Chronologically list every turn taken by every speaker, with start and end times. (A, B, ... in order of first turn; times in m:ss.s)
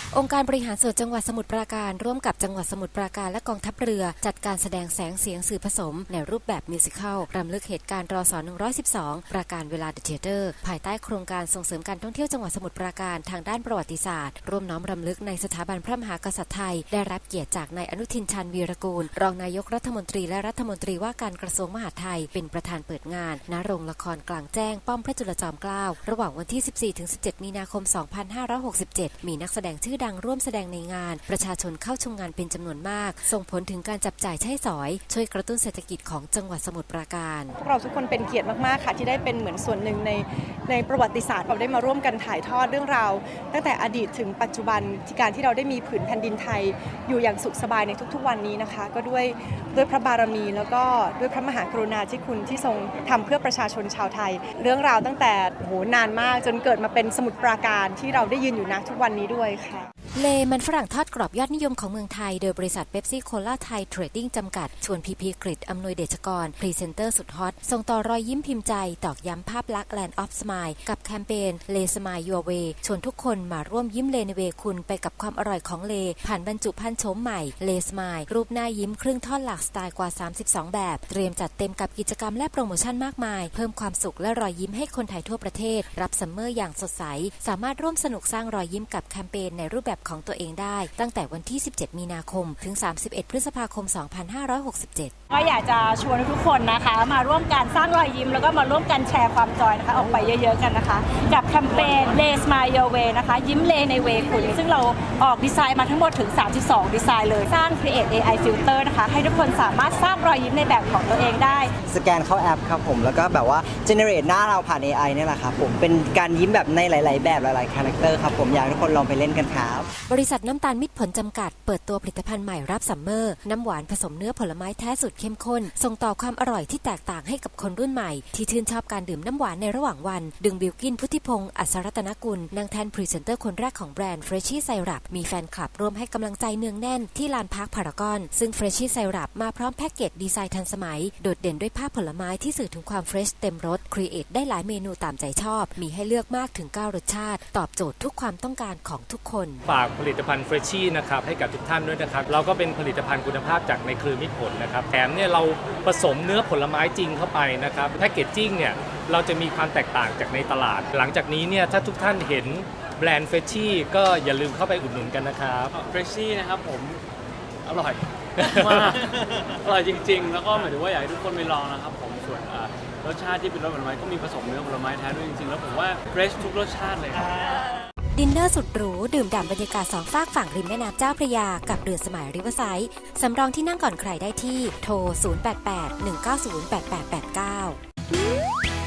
0:00.1-0:37.5 A
0:37.6-0:59.9 B
1:00.1-1:35.1 A
1:35.3-1:51.7 C
1:51.8-1:59.9 D
2:00.1-2:29.6 A
2:29.7-2:45.7 E
2:45.7-2:47.0 F
2:47.6-2:57.3 F
2:48.4-2:48.9 E
2:58.2-3:07.8 A